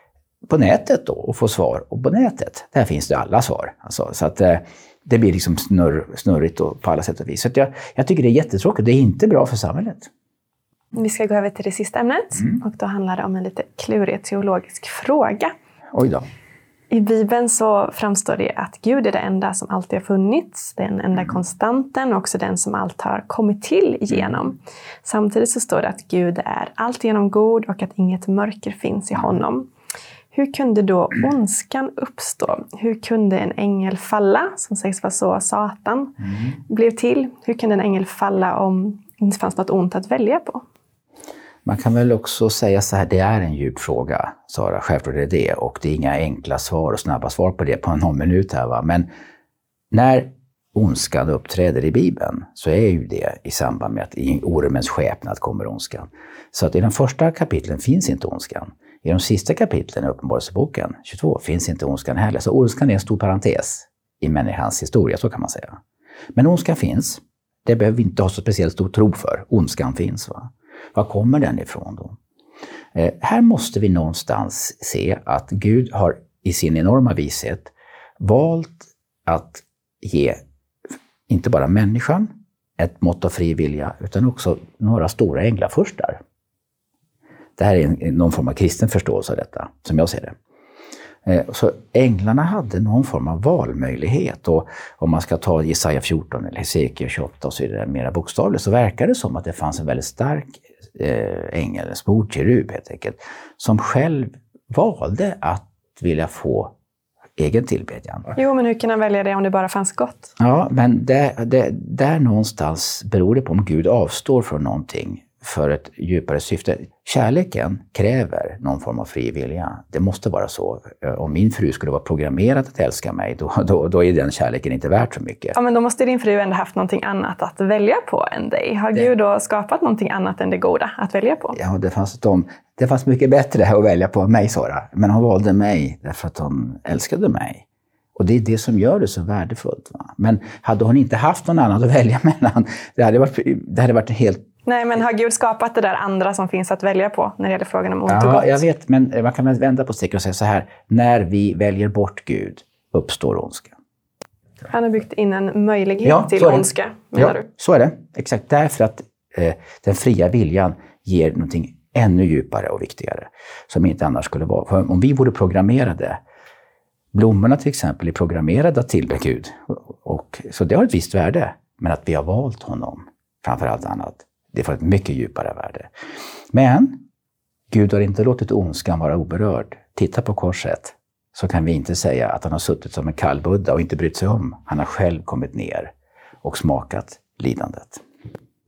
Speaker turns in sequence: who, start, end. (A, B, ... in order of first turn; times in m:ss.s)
0:00.5-0:10.1 A
0:10.9-0:15.5 B
0:15.9-0:16.2 A
0:16.9-0:29.7 B
0:30.3-0:40.6 B
0:41.7-0:49.1 A
0:49.9-1:05.8 A
1:06.4-1:12.2 A
1:13.0-1:20.4 A
1:21.3-1:26.2 A
1:27.6-1:30.4 A
1:31.2-1:46.7 A
1:47.4-1:48.4 A
1:48.4-1:50.3 B
1:50.4-2:05.6 A
2:05.6-2:11.6 B
2:11.6-2:17.6 A
2:18.2-2:24.5 A
2:24.6-2:28.6 B
2:28.1-2:33.7 A
2:34.7-2:37.5 B
2:36.0-2:46.2 A
2:47.1-2:55.9 A
2:56.5-2:57.0 A
2:57.7-3:05.9 A
3:06.4-3:08.0 A